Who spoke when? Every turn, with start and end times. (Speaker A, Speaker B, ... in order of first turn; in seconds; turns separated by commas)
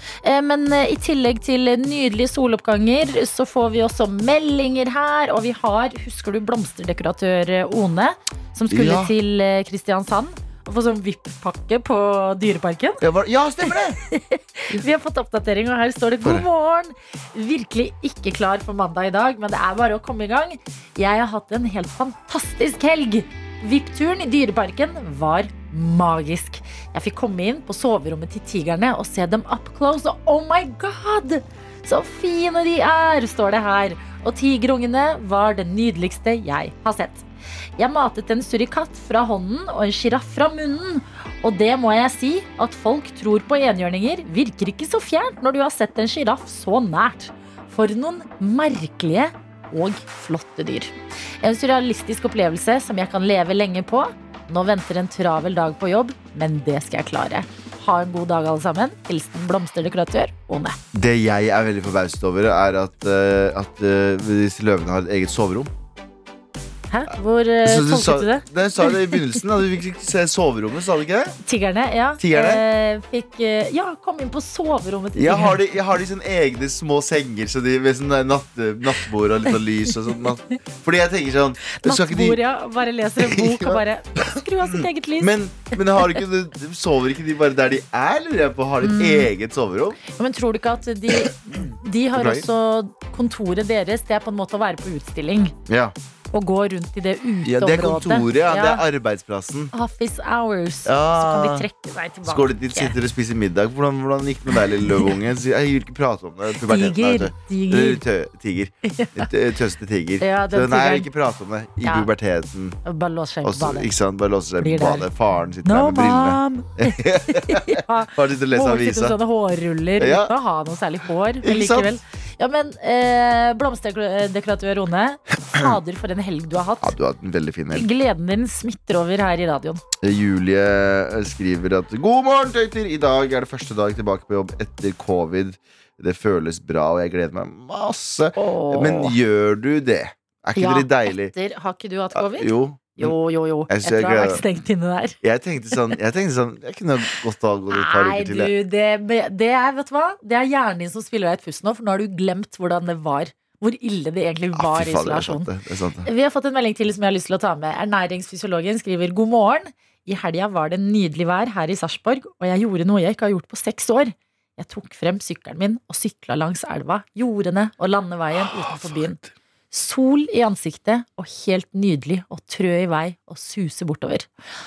Speaker A: 0.2-13.0, Speaker B: 8.7-9.1, Speaker B: 13.0-14.0, Speaker A: 13.7-37.3, Speaker A: 37.8-60.8, Speaker B: 60.9-65.7, Speaker A: 66.9-69.2, Speaker B: 67.7-71.4, Speaker A: 71.4-75.6, Speaker B: 72.2-72.6, Speaker B: 75.2-82.4, Speaker A: 81.7-85.3, Speaker B: 83.2-90.0, Speaker A: 88.8-89.3, Speaker A: 90.0-95.5, Speaker B: 92.1-92.5, Speaker B: 95.7-96.0, Speaker A: 96.3-98.8, Speaker B: 97.5-99.7, Speaker A: 99.7-102.9, Speaker B: 100.8-101.7, Speaker B: 102.2-112.8, Speaker A: 106.6-108.0, Speaker A: 108.9-109.3, Speaker A: 110.2-111.1, Speaker A: 111.8-112.1, Speaker A: 112.8-113.9, Speaker B: 113.4-119.2, Speaker A: 114.6-115.1, Speaker A: 115.6-126.9, Speaker B: 120.0-120.3, Speaker B: 121.4-122.0, Speaker B: 126.8-127.9, Speaker A: 127.7-129.8, Speaker B: 130.0-141.3, Speaker A: 138.3-139.2, Speaker A: 140.6-145.2, Speaker B: 142.1-143.2, Speaker B: 143.7-144.4, Speaker B: 145.2-148.5, Speaker A: 147.7-155.5, Speaker B: 154.6-156.1, Speaker A: 156.1-169.2, Speaker B: 168.3-169.3, Speaker A: 169.7-174.3